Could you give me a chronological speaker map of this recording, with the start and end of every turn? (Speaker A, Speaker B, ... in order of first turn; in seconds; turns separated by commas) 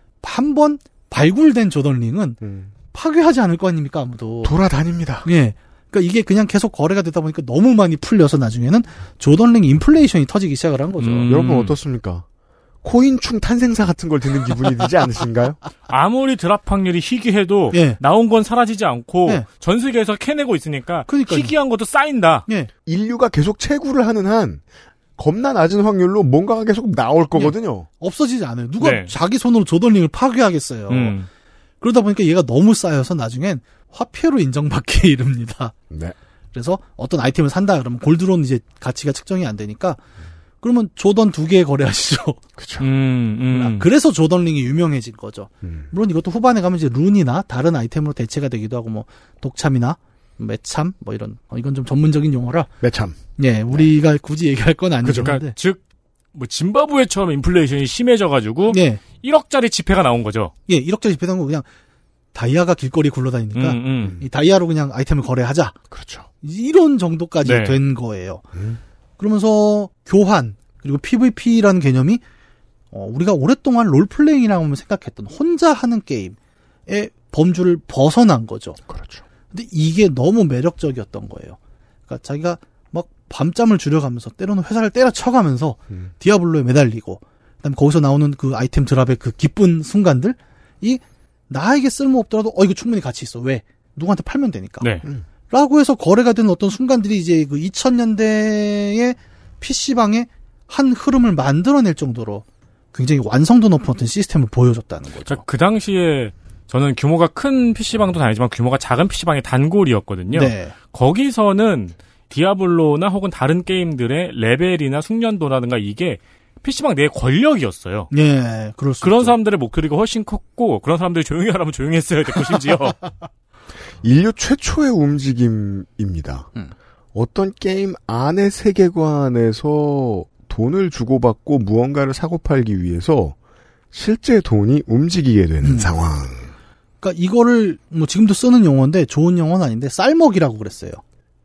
Speaker A: 0.2-2.4, Speaker B: 2.4-2.7, Speaker A: 2.9-4.5, Speaker B: 4.4-5.3, Speaker A: 5.2-11.3, Speaker C: 11.0-11.8, Speaker B: 11.3-12.2, Speaker B: 12.8-15.6, Speaker C: 15.9-22.5, Speaker A: 17.7-18.0, Speaker A: 21.1-21.5, Speaker B: 22.9-24.6, Speaker B: 25.2-27.9, Speaker A: 27.4-31.1, Speaker C: 28.8-29.1, Speaker C: 30.9-31.3, Speaker A: 31.8-35.8, Speaker B: 35.9-36.2, Speaker A: 36.5-40.0, Speaker A: 40.6-42.4, Speaker B: 42.6-42.9, Speaker C: 42.8-43.9, Speaker A: 43.5-52.7, Speaker B: 45.6-45.9, Speaker B: 52.8-53.2, Speaker A: 53.4-55.5, Speaker B: 55.0-55.4, Speaker C: 55.1-55.8, Speaker C: 56.3-60.5, Speaker A: 58.7-59.0, Speaker A: 60.7-61.7, Speaker A: 62.3-65.8, Speaker C: 63.5-64.2, Speaker B: 64.0-64.3, Speaker B: 65.9-66.3, Speaker A: 66.4-68.5, Speaker C: 67.4-67.8, Speaker B: 68.5-68.8, Speaker A: 69.2-72.2, Speaker A: 72.9-76.4, Speaker A: 76.9-78.8, Speaker B: 78.9-79.2, Speaker A: 79.5-81.6, Speaker A: 82.1-94.9, Speaker C: 94.8-95.1, Speaker A: 95.5-105.4, Speaker C: 105.3-118.1, Speaker A: 110.3-110.8, Speaker A: 118.1-119.3, Speaker C: 119.0-123.1, Speaker B: 124.0-126.5, Speaker B: 127.1-133.3, Speaker B: 133.9-136.5, Speaker A: 135.6-135.9, Speaker A: 137.0-141.0